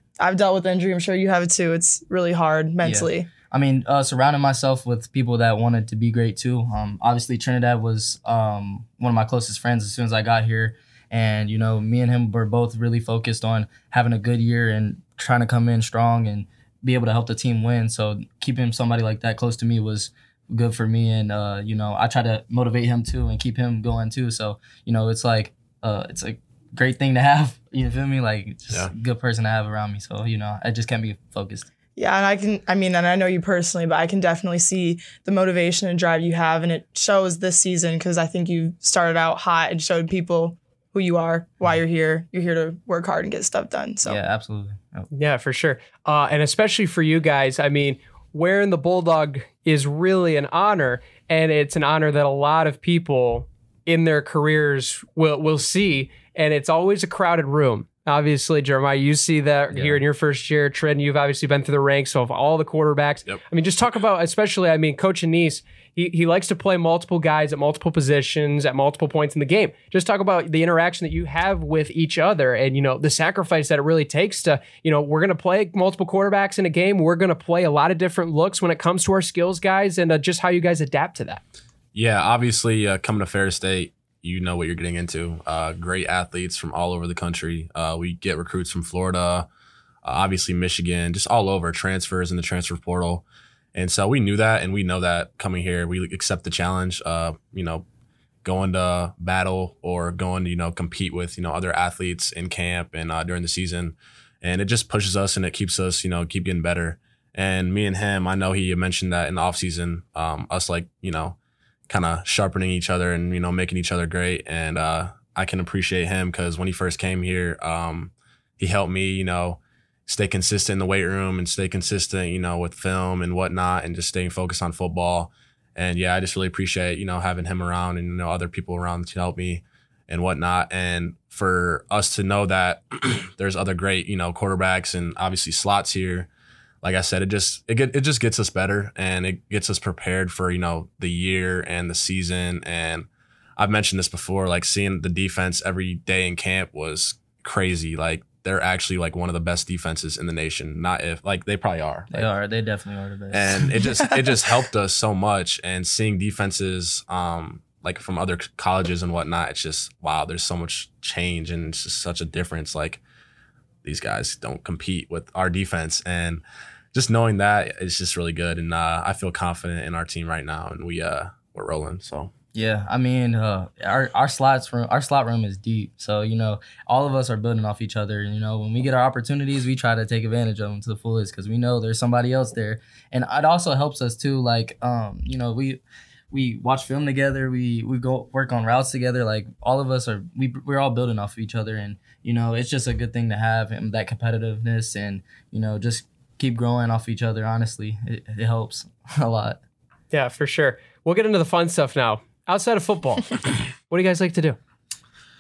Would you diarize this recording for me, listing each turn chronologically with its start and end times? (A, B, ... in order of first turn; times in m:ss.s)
0:00.2-0:03.3 A
0:02.8-0:31.7 B
0:32.0-0:44.2 A
0:44.0-0:45.1 B
0:45.1-1:21.4 C
0:59.7-1:00.0 B
1:21.9-1:29.4 D
1:30.0-1:37.8 D
1:38.4-1:51.4 D
1:51.9-2:16.3 D
2:16.8-2:32.3 D
2:32.1-2:33.7 B
2:33.3-2:43.0 D
2:43.8-2:46.4 D
2:46.9-2:52.3 D
2:52.5-3:19.6 B
3:20.1-3:24.6 C